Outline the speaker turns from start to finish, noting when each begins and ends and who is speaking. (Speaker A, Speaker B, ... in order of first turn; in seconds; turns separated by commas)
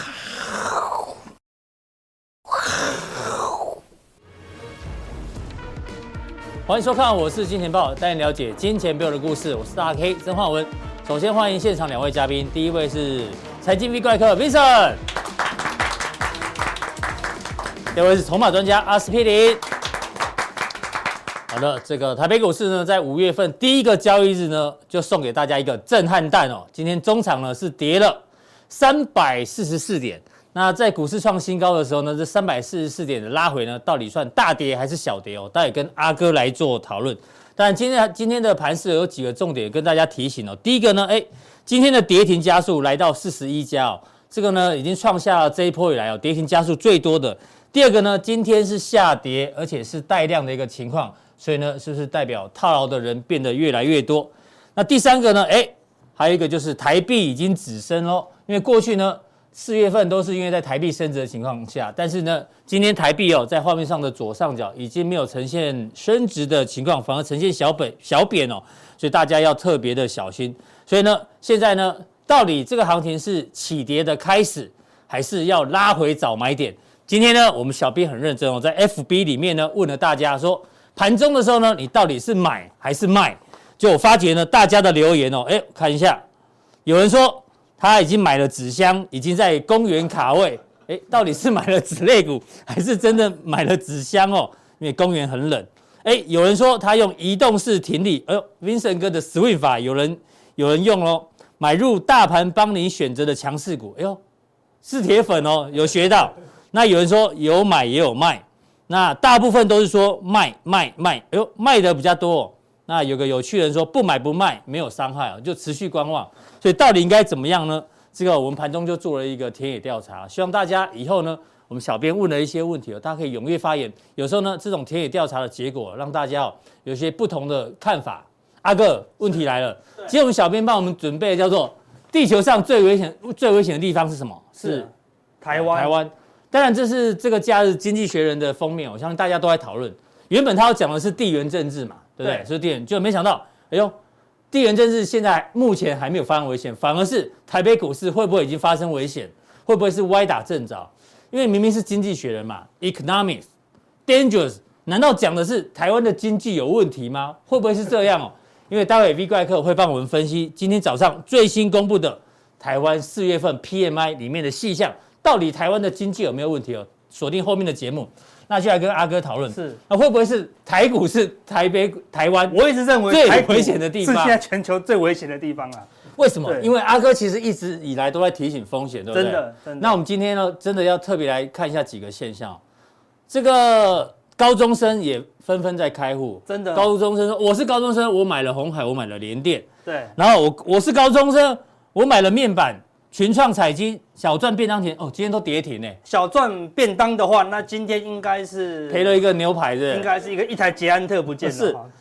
Speaker A: 6.7-15.0, Speaker A: 17.9-19.6, Speaker A: 21.5-86.2, Speaker A: 86.9-104.2, Speaker A: 104.8-134.9, Speaker B: 134.6-134.9, Speaker B: 135.4-135.9, Speaker A: 135.5-143.9, Speaker B: 142.2-142.5, Speaker A: 144.5-153.5, Speaker A: 154.1-174.4, Speaker B: 169.5-169.8, Speaker B: 172.5-175.9, Speaker A: 176.2-182.6, Speaker B: 176.4-176.7, Speaker B: 179.1-180.0, Speaker A: 183.3-189.7, Speaker B: 186.5-186.9, Speaker B: 189.9-190.1, Speaker A: 190.2-196.0, Speaker B: 196.1-199.2, Speaker A: 198.9-200.1, Speaker B: 199.9-201.9, Speaker A: 201.4-201.8